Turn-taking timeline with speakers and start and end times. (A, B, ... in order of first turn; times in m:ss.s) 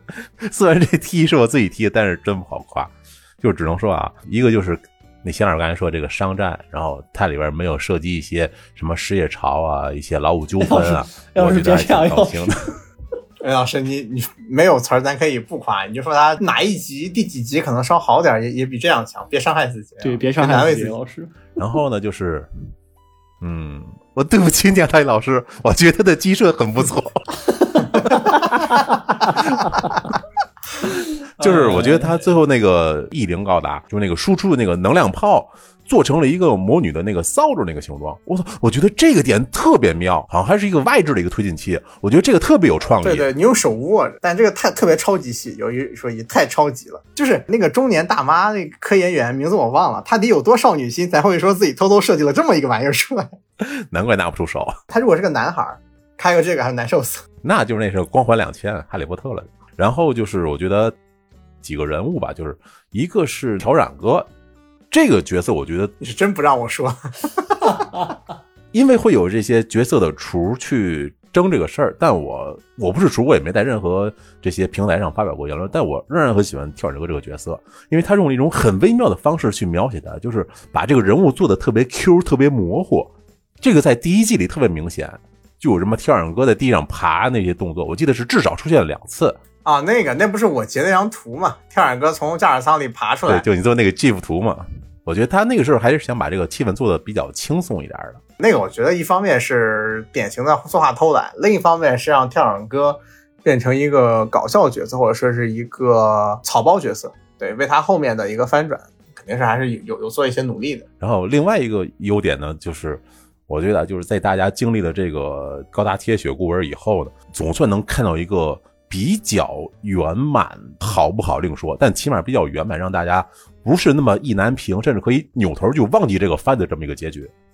0:00.4-0:12.8 A
0:10.6-0:12.5 B
0:13.4-0:21.0 C
0:20.0-0:21.4 B
0:21.6-0:22.5 A
0:23.4-0:27.4 A
0:28.1-0:28.7 B
0:29.4-0:29.7 A
0:31.4-0:43.3 A
0:31.5-0:32.0 B
0:43.0-0:53.4 C
0:53.6-0:54.8 A
0:54.9-0:57.2 C
0:57.4-1:00.9 A
1:01.6-1:04.3 A
1:04.9-1:05.9 A
1:06.0-1:07.9 C
1:08.7-1:29.4 A
1:29.6-1:33.4 C
1:33.3-1:38.2 A
1:38.4-1:50.9 C
1:51.0-2:07.3 A